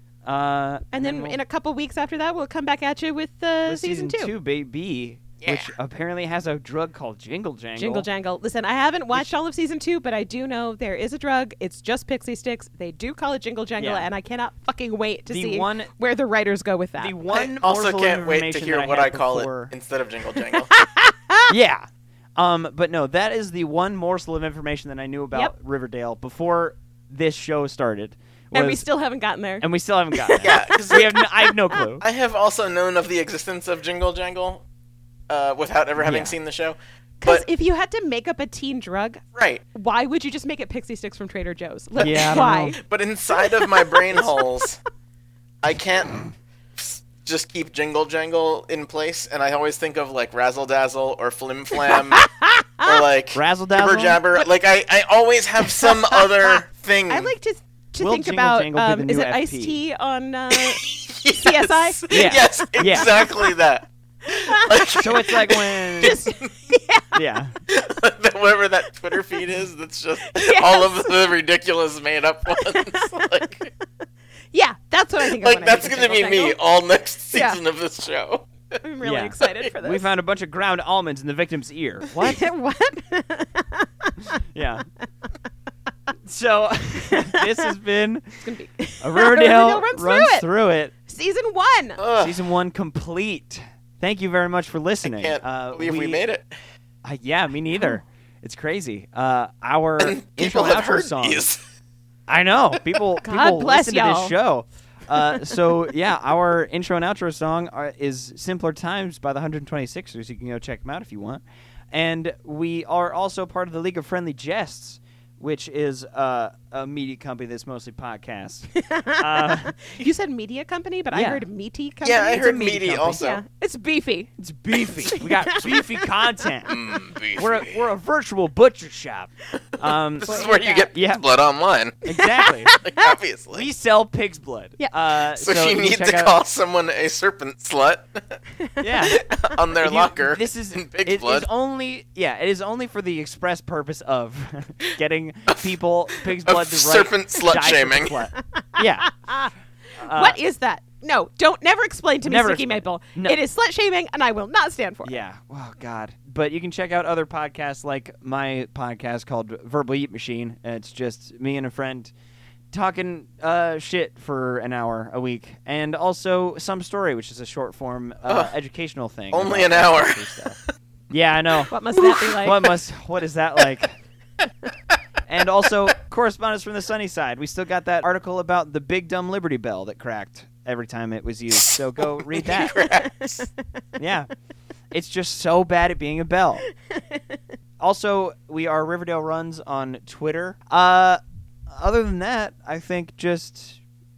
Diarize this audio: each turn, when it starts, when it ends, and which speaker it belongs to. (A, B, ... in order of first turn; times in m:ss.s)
0:00.2-0:01.4 A
0:00.9-0:04.3 B
0:03.6-0:08.1 A
0:05.4-0:05.7 C
0:07.8-0:17.2 B
0:13.8-0:14.1 A
0:15.3-0:15.9 A
0:17.0-0:19.7 A
0:17.3-0:20.7 C
0:20.5-0:21.5 B
0:21.5-0:28.8 A
0:28.5-0:31.5 B
0:29.6-0:32.0 A
0:30.4-0:31.2 C
0:32.0-0:34.6 C
0:35.3-0:37.4 C
0:36.0-0:36.3 A
0:37.2-0:39.2 B
0:39.3-0:39.6 C
0:39.7-0:42.8 B
0:42.0-0:42.8 A
0:42.8-0:44.8 C
0:43.4-0:44.4 B
0:45.6-0:46.2 C
0:46.8-0:57.3 C
0:51.9-0:52.9 B
0:53.3-0:54.2 A
0:57.1-1:03.5 B
0:58.0-0:59.8 A
1:00.5-1:06.5 C
1:02.1-1:03.1 A
1:04.2-1:07.2 B
1:04.9-1:06.2 A
1:07.1-1:07.5 A
1:07.7-1:13.7 C
1:10.2-1:11.1 B
1:12.5-1:13.1 B
1:14.5-1:16.6 B
1:15.3-1:18.5 C
1:17.3-1:17.6 B
1:18.8-1:20.1 B
1:19.0-1:22.5 A
1:22.2-1:24.3 B
1:24.5-1:24.9 A
1:26.2-1:28.4 A
1:27.1-1:27.7 B
1:28.4-1:30.5 B
1:29.0-1:30.9 A
1:31.0-1:32.0 B
1:32.0-1:32.4 C
1:32.2-1:36.2 A
1:35.0-1:36.5 C
1:37.0-1:41.4 A
1:40.0-1:41.6 C
1:42.3-1:59.8 A
1:43.2-1:44.3 B
1:58.7-2:06.1 B
2:01.1-2:01.4 A
2:02.0-2:03.4 C
2:02.3-2:03.3 A
2:04.4-2:06.8 A
2:06.7-2:07.8 C
2:07.4-2:11.2 A
2:10.2-2:12.0 C
2:10.2-2:10.9 B
2:12.0-2:12.7 A
2:12.1-2:13.1 B
2:12.8-2:13.7 C
2:13.5-2:16.3 A
2:15.3-2:18.4 C
2:18.8-2:19.2 A
2:19.1-2:21.5 C
2:19.8-2:29.1 A
2:26.2-2:28.2 C
2:28.5-2:29.5 B
2:30.0-2:30.4 A
2:30.0-2:35.1 B
2:32.2-2:33.4 A
2:35.0-2:42.1 A
2:42.7-2:50.6 A
2:49.3-2:50.2 C
2:51.1-2:54.0 A
2:51.7-2:52.7 B
2:55.3-3:02.8 A
3:01.7-3:03.5 C
3:04.0-3:04.3 A
3:04.9-3:06.6 A
3:06.9-3:07.4 B
3:07.8-3:13.8 A